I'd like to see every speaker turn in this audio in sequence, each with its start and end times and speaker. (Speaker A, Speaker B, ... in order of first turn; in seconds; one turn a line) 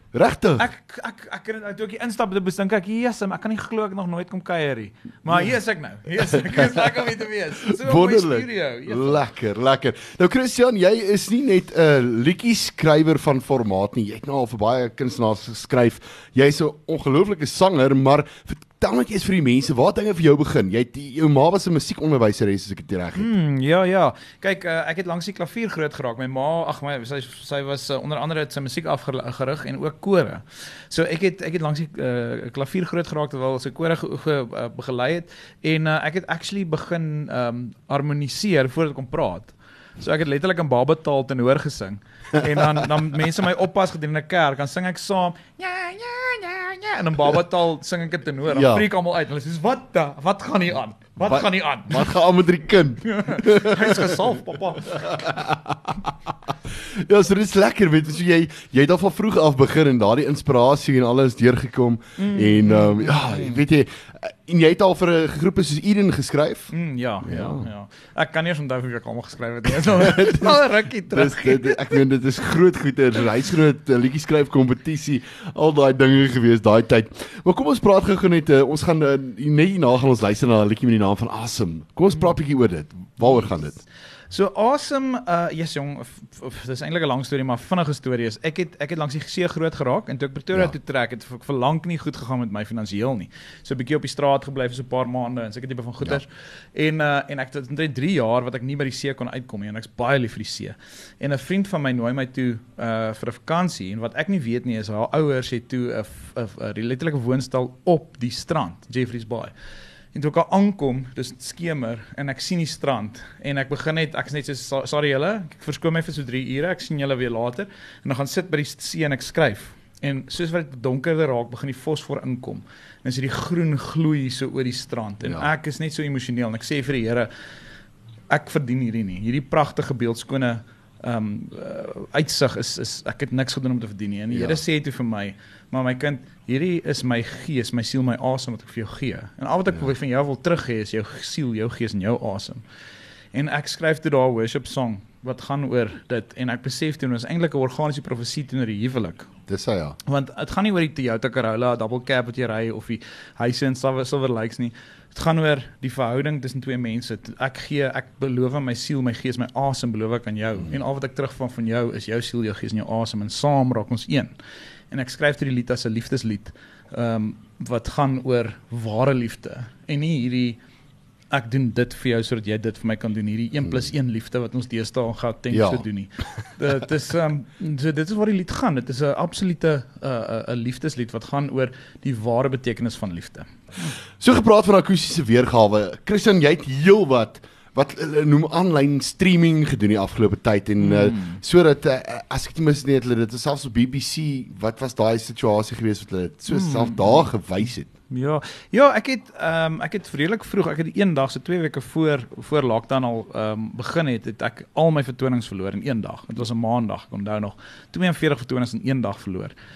Speaker A: 0.1-0.7
Speaker B: 0.6-9.2
Speaker A: 6.4-7.1
Speaker A: 7.7-23.3
Speaker B: 23.1-52.1
Speaker A: 48.5-48.9
Speaker A: 51.2-54.1
Speaker B: 53.0-55.2
Speaker A: 54.9-66.7
Speaker B: 62.2-63.6
Speaker B: 66.7-72.0
Speaker A: 67.2-67.7
Speaker A: 69.8-83.8
Speaker B: 84.3-109.5
Speaker B: 110.1-127.3
Speaker B: 128.3-142.6
Speaker A: 134.3-134.6
Speaker B: 143.3-149.3
Speaker A: 149.5-150.0
Speaker B: 150.1-164.3
Speaker B: 164.9-170.6
Speaker B: 171.3-183.5
Speaker A: 175.5-175.8
Speaker A: 184.2-197.9
Speaker B: 190.8-191.4
Speaker B: 196.5-197.3
Speaker B: 198.1-209.5